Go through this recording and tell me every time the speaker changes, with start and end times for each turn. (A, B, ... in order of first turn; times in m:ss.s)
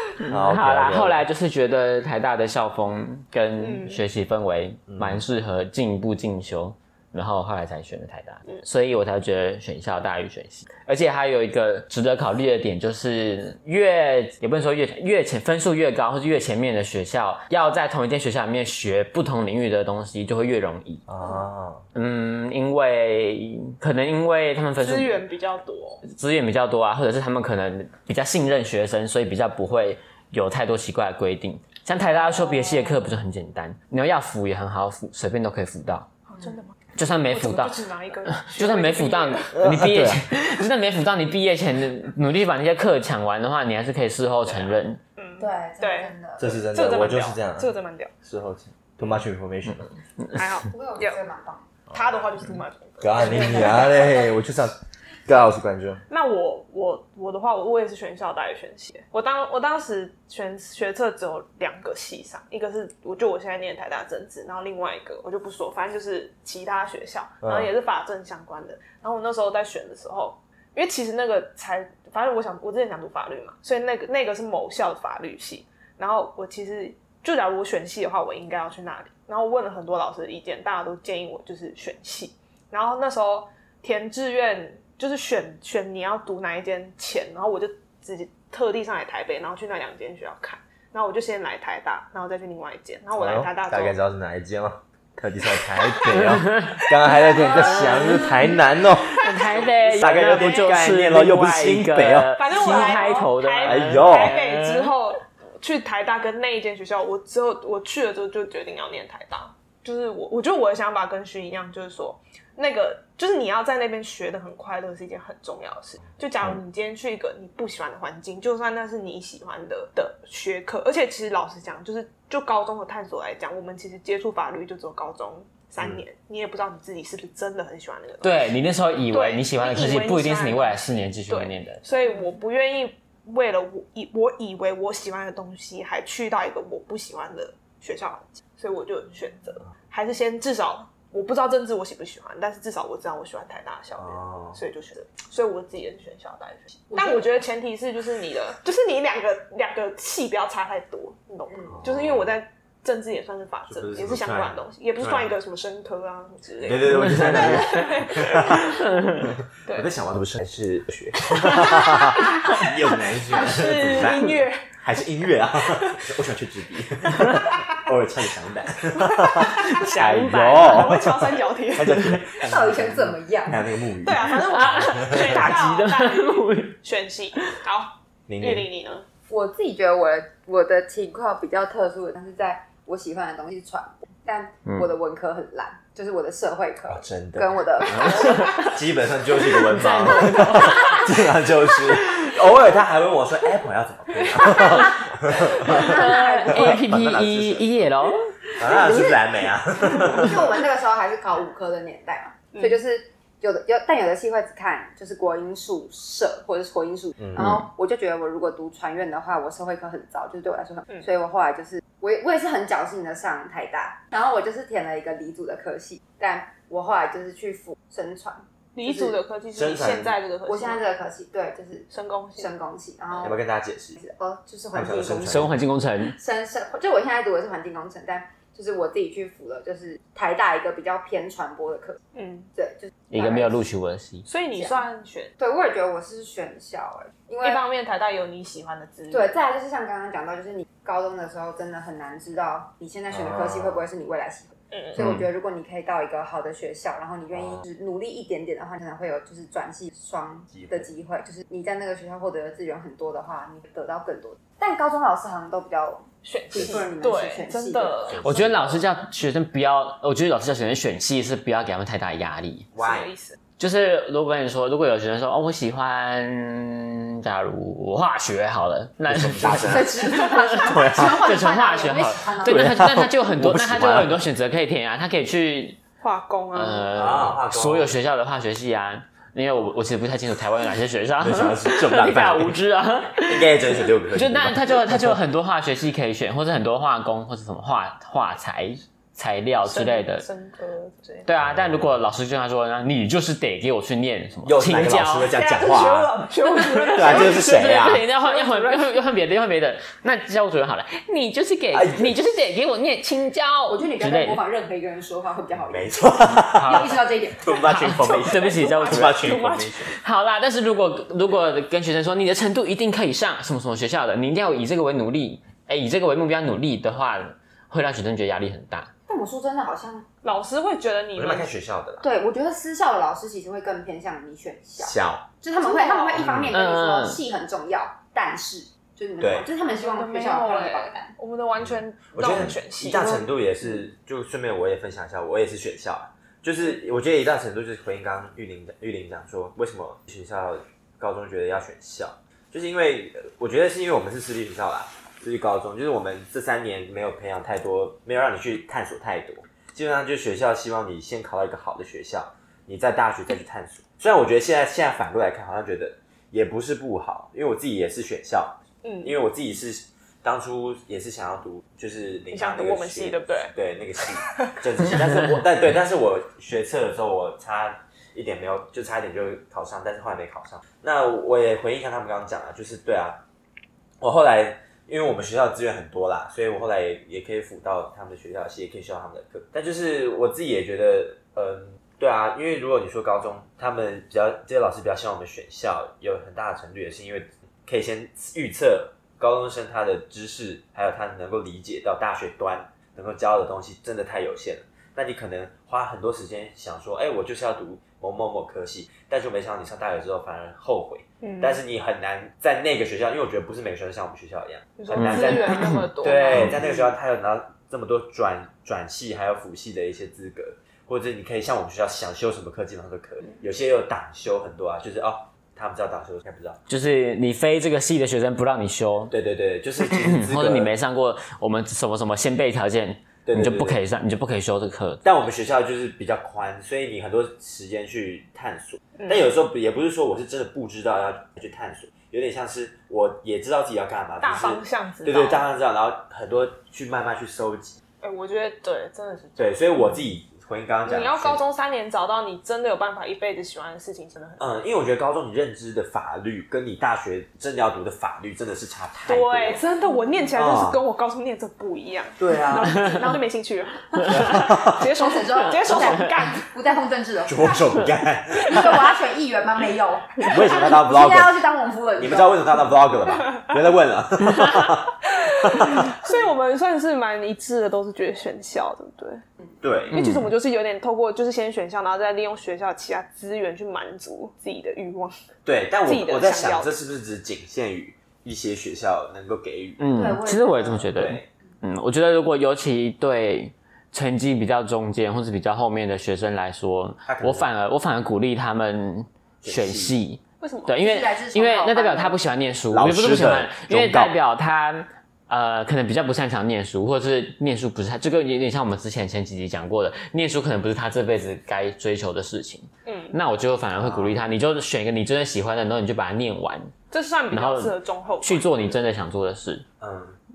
0:00.2-0:21.0 A
0:00.2-0:01.2 B
0:03.6-0:04.0 C
0:04.9-0:05.2 B
0:21.1-0:21.8 B
0:21.9-0:25.2 A
0:24.8-0:26.0 C
0:26.0-0:36.1 A
0:32.1-0:32.9 C
0:36.3-0:36.8 C
0:37.0-0:45.0 A
0:37.3-0:39.6 C
0:39.6-0:40.2 B
0:44.5-0:48.1 C
0:45.4-0:46.7 D
0:46.4-0:47.7 B
0:48.2-0:49.9 B
0:50.3-0:51.2 C
0:50.7-0:51.7 D
0:51.9-0:54.2 C
0:53.0-0:54.7 B
0:55.2-0:56.0 B
0:56.1-1:34.0 C
1:33.2-1:39.3 B
1:37.0-1:38.3 C
1:37.8-1:38.3 A
1:39.1-1:40.5 C
1:39.1-1:44.9 A
1:39.9-1:42.3 B
1:42.4-2:08.5 C
1:43.6-1:44.4 B
2:08.2-2:11.8 A
2:09.0-2:39.9 C
2:24.1-2:24.5 B
2:31.7-2:32.3 B
2:33.7-2:35.3 B
2:36.6-2:38.7 B
2:39.2-2:55.3 B
2:41.4-2:44.8 C
2:49.0-2:52.2 C
2:49.7-2:51.0 A
2:52.4-2:53.6 D
2:54.0-2:59.0 C
2:54.4-2:56.8 A
2:58.3-2:58.6 B
2:59.3-3:08.6 D
3:06.9-3:17.7 B
3:09.6-3:11.2 A
3:15.5-3:16.8 D
3:15.6-3:18.3 A
3:18.5-3:39.2 D
3:18.6-3:20.5 B
3:27.2-3:27.5 B
3:38.7-3:40.8 C
3:39.5-3:40.2 B
3:40.5-3:43.4 D
3:41.9-3:42.5 C
3:43.2-3:44.0 B
3:44.0-3:45.6 D
3:44.7-3:45.5 B
3:45.2-3:46.2 A
3:46.1-3:52.0 D
3:52.1-3:52.5 C
3:52.6-3:53.6 D
3:53.1-3:54.3 A
3:54.2-3:55.3 C
3:55.4-3:57.6 D
3:57.4-3:59.3 C
3:59.1-4:18.1 D
4:03.2-4:03.7 B
4:04.7-4:05.0 C
4:10.5-4:10.9 B
4:16.2-4:18.2 C
4:18.0-4:18.8 B
4:18.2-4:22.7 A
4:22.7-4:23.1 B
4:22.8-4:23.4 C
4:23.6-4:35.8 A
4:29.1-4:31.1 B
4:29.5-4:32.7 D
4:32.4-4:34.1 B
4:36.0-4:37.0 C
4:36.5-4:50.2 A
4:36.9-4:37.9 B
4:41.2-4:42.6 B
4:43.3-4:45.2 B
4:49.6-4:51.3 C
4:51.2-4:55.3 A
4:51.4-4:52.0 B
4:54.4-4:56.2 B
4:55.3-4:59.0 C
4:56.9-4:58.0 B
4:57.0-5:04.4 A
5:01.7-5:02.2 B
5:03.7-5:07.7 D
5:05.7-5:09.9 B
5:06.7-5:06.9 A
5:07.6-5:09.3 A
5:08.0-5:09.9 C
5:09.9-5:18.9 A
5:19.1-5:20.0 D
5:20.2-5:21.5 C
5:21.1-5:22.0 B
5:22.0-5:31.2 D
5:24.8-5:25.3 B
5:25.6-5:26.3 C
5:26.2-5:26.5 B
5:26.5-5:27.2 A
5:29.2-5:29.5 B
5:29.7-5:33.3 C
5:31.6-6:13.2 B
5:58.8-5:59.1 C
6:02.3-6:04.5 C
6:14.0-6:56.6 B
6:41.2-6:41.6 C
6:44.8-6:46.8 C
6:45.5-6:45.8 A
6:56.7-6:59.1 A
6:59.1-7:00.7 B
6:59.9-7:05.0 A
7:03.2-7:03.8 B
7:05.0-7:17.8 B
7:14.2-7:15.4 C
7:18.0-7:19.6 C
7:19.4-7:21.4 B
7:20.8-7:24.5 C
7:24.4-7:29.6 B
7:29.0-7:36.4 C
7:30.3-7:30.8 B
7:32.2-7:32.9 B
7:34.1-7:34.9 B
7:34.8-7:42.7 D
7:37.3-7:38.8 B
7:40.2-7:41.4 B
7:42.0-7:46.1 B
7:45.3-7:49.2 C
7:49.6-7:50.0 B
7:49.9-7:55.1 C
7:49.9-7:50.3 A
7:55.4-7:59.8 B
7:55.8-7:56.7 C
7:59.8-8:26.7 A
7:59.9-8:00.9 D
8:00.9-8:01.3 B
8:07.0-8:07.5 B
8:09.4-8:10.0 B
8:10.4-8:10.7 C
8:10.8-8:12.2 D
8:12.7-8:14.1 B
8:22.8-8:23.2 C
8:23.8-8:24.2 B
8:26.9-8:28.8 C
8:27.3-8:29.6 A
8:29.8-8:30.2 B